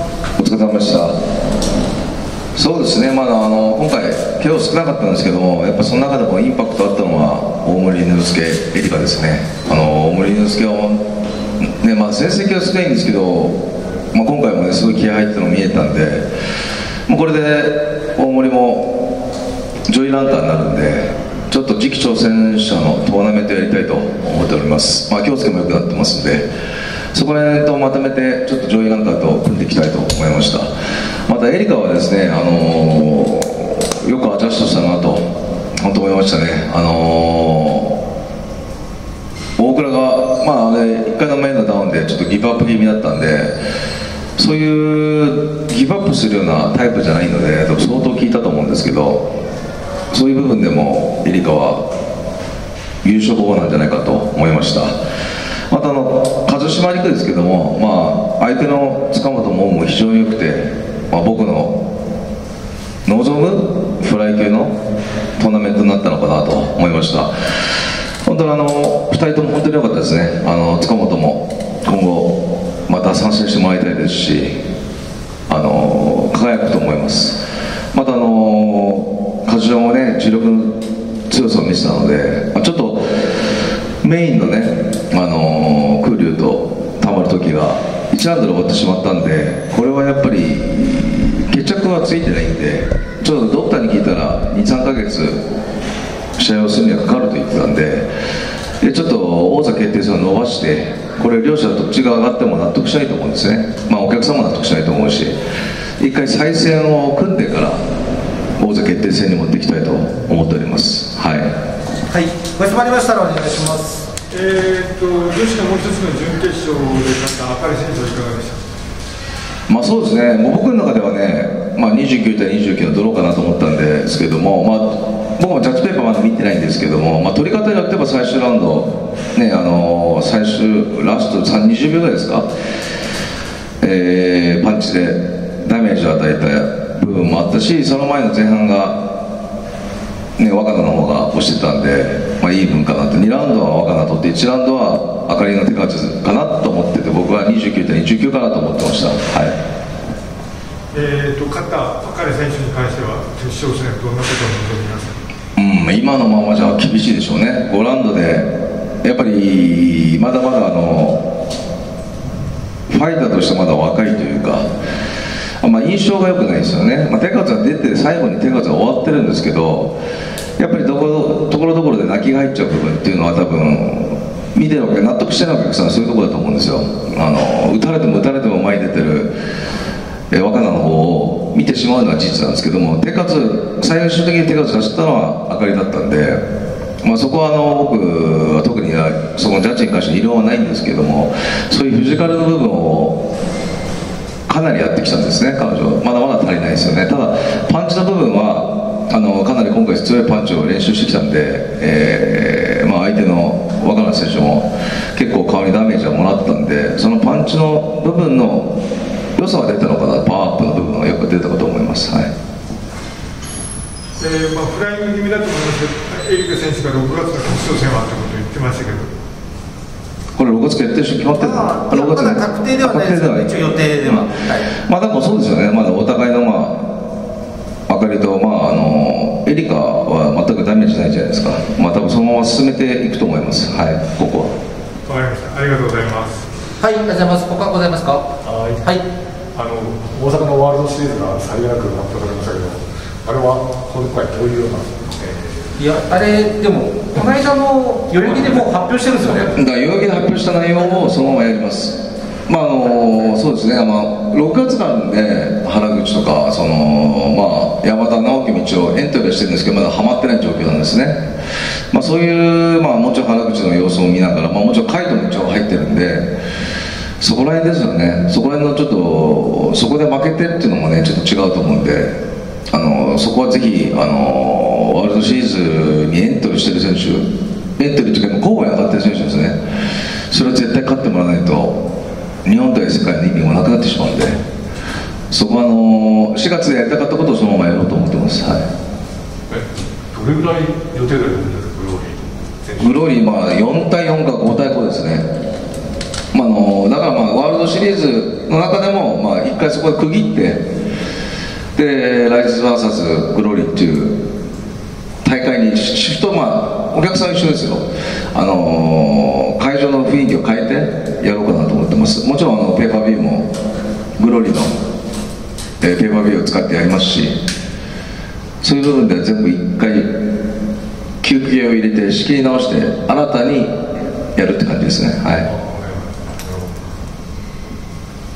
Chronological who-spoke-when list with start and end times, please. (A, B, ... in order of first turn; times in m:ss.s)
0:00.4-0:01.1 A
0:02.5-0:11.0 A
0:11.6-0:16.3 A
0:17.1-0:19.0 A
0:19.9-0:26.5 A
0:27.1-0:30.7 A
0:31.3-0:38.0 A
0:39.6-0:43.6 A
0:44.4-0:49.3 A
0:50.1-0:51.8 A
0:53.0-0:54.9 A
0:55.7-1:01.8 A
1:03.0-1:04.8 A
1:05.4-1:07.3 A
1:08.2-1:14.6 A
1:15.5-1:23.3 A
1:24.0-1:35.4 A
1:36.4-1:38.1 A
1:38.8-1:45.4 A
1:46.0-1:47.8 A
1:48.6-1:51.5 A
1:52.1-1:54.1 B
1:54.3-1:58.6 C
1:59.7-2:12.5 A
2:13.8-2:19.1 A
2:20.4-2:29.6 A
2:30.9-2:35.2 C
2:35.6-2:38.5 A
2:39.0-2:41.2 A
2:42.9-2:44.6 A
2:45.6-2:50.0 A
2:50.6-2:59.3 A
3:00.3-3:06.4 A
3:07.0-3:13.2 A
3:14.5-3:28.8 A
3:29.4-3:32.3 A
3:34.2-3:39.1 C
3:40.3-3:44.3 A
3:41.3-3:44.6 B
3:44.8-3:46.9 A
3:47.9-3:54.5 A
3:55.0-3:56.4 C
3:56.8-3:58.3 B
3:58.4-3:58.8 D
3:59.5-4:05.5 D
4:05.8-4:09.6 B
4:09.5-4:21.3 A
4:21.9-4:26.4 A
4:27.2-4:32.2 A
4:32.7-4:39.6 A
4:40.3-4:41.8 A
4:42.4-4:44.4 A
4:45.3-4:48.6 A
4:49.5-4:53.0 D
4:52.8-4:55.3 A
4:56.3-5:00.6 A
5:01.7-5:04.2 A
5:05.2-5:13.5 A
5:14.2-5:14.8 A
5:15.8-5:17.4 A
5:18.6-5:20.2 A
5:21.2-5:23.7 A
5:24.4-5:25.5 A
5:25.4-5:26.7 D